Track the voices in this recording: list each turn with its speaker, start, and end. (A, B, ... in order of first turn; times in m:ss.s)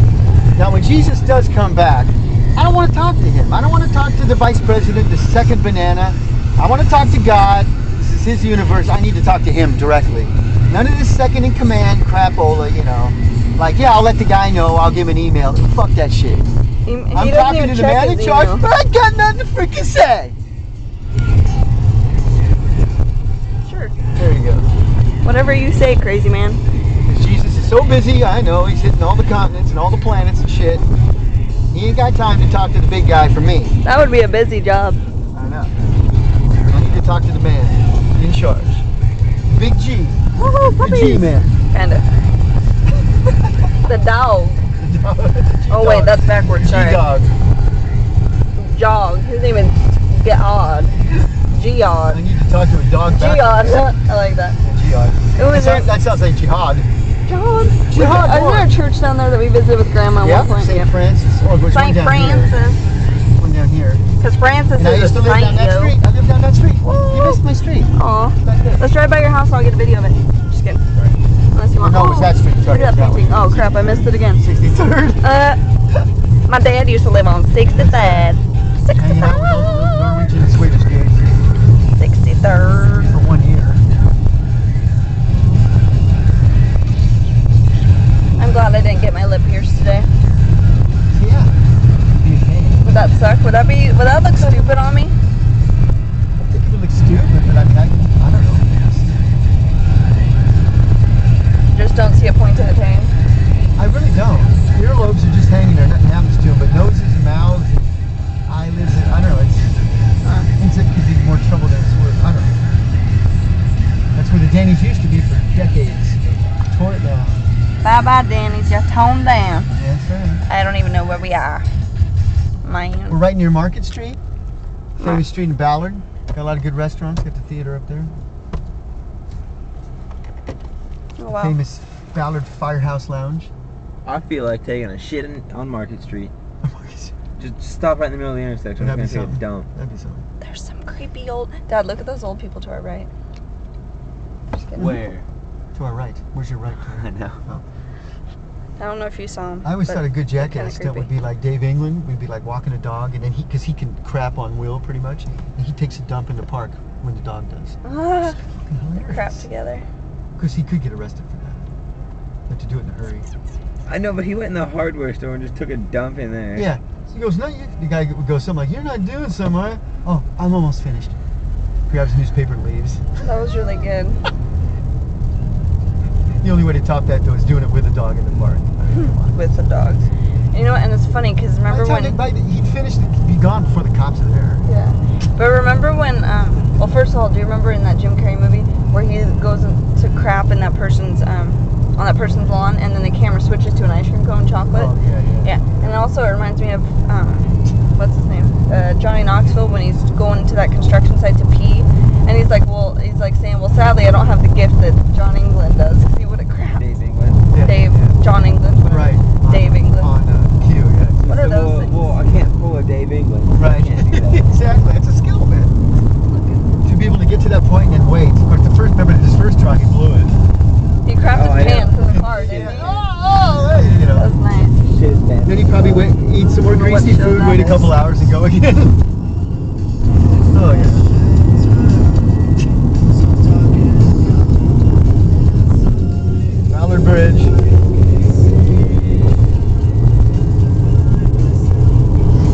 0:00.5-0:16.5 A
0:16.8-0:18.6 B
0:17.1-0:20.4 A
0:23.6-0:23.9 B
0:24.1-0:24.7 A
0:25.2-0:26.6 B
0:27.0-0:30.8 A
0:31.7-0:33.7 A
0:33.8-0:35.0 B
0:35.3-0:35.7 A
0:36.7-0:38.8 A
0:39.4-0:40.2 A
0:40.4-0:42.0 B
0:40.8-0:41.5 A
0:43.8-0:44.6 B
0:44.8-0:47.4 A
0:45.7-0:47.0 B
0:48.6-0:52.2 B
0:52.1-0:53.9 A
0:53.1-0:54.6 B
0:54.6-0:56.9 A
0:55.4-0:55.9 B
0:57.2-1:00.9 B
0:57.9-0:58.7 A
1:00.2-1:02.5 A
1:01.7-1:02.8 B
1:03.4-1:04.0 A
1:04.2-1:05.9 B
1:04.8-1:07.9 A
1:06.8-1:07.4 B
1:07.9-1:10.8 B
1:08.4-1:08.9 A
1:10.9-1:11.2 A
1:11.5-1:14.4 B
1:11.8-1:15.2 A
1:15.2-1:15.6 B
1:16.5-1:20.1 B
1:17.7-1:18.4 A
1:18.9-1:21.3 A
1:22.0-1:23.2 B
1:23.1-1:23.8 A
1:28.4-1:30.1 B
1:31.1-1:31.5 A
1:32.2-1:32.9 A
1:32.8-1:35.2 B
1:34.3-1:34.8 A
1:36.4-1:39.2 A
1:41.7-1:43.1 B
1:43.8-1:47.9 A
1:48.5-1:49.7 A
1:50.2-1:50.5 B
1:50.6-1:52.6 A
1:54.1-1:57.4 A
1:57.8-1:59.7 B
1:59.8-2:00.4 A
2:00.5-2:01.7 B
2:02.6-2:03.2 B
2:03.1-2:04.2 A
2:05.0-2:05.2 B
2:05.0-2:08.1 A
2:11.2-2:11.6 B
2:11.3-2:13.5 A
2:14.0-2:16.3 C
2:16.6-2:17.1 A
2:17.4-2:19.7 C
2:18.8-2:20.2 A
2:20.4-2:23.1 B
2:24.5-2:25.0 B
2:24.8-2:25.3 C
2:25.7-2:27.6 A
2:26.8-2:27.4 C
2:28.8-2:31.1 B
2:29.6-2:39.4 A
2:37.8-2:38.4 B
2:39.0-2:39.8 B
2:40.4-2:41.7 A
2:42.5-2:43.3 A
2:43.9-2:46.7 C
2:46.5-2:51.1 A
2:51.9-2:53.2 A
2:53.2-2:54.2 B
2:56.4-2:59.4 A
2:58.9-3:02.2 B
3:01.7-3:04.6 A
3:04.7-3:14.9 B
3:14.7-3:15.6 A
3:15.4-3:26.9 B
3:26.8-3:27.5 C
3:27.5-3:28.2 A
3:27.6-3:30.1 B
3:28.9-3:31.3 A
3:31.2-3:34.5 C
3:31.3-3:31.9 B
3:33.5-3:35.7 A
3:36.3-3:36.7 B
3:36.8-3:40.4 A
3:41.0-3:43.1 B
3:41.3-3:43.0 C
3:42.1-3:44.3 A
3:44.1-3:44.8 B
3:44.8-3:46.2 C
3:45.4-3:49.0 A
3:46.6-3:47.9 B
3:50.5-3:51.1 A
3:56.7-3:57.6 A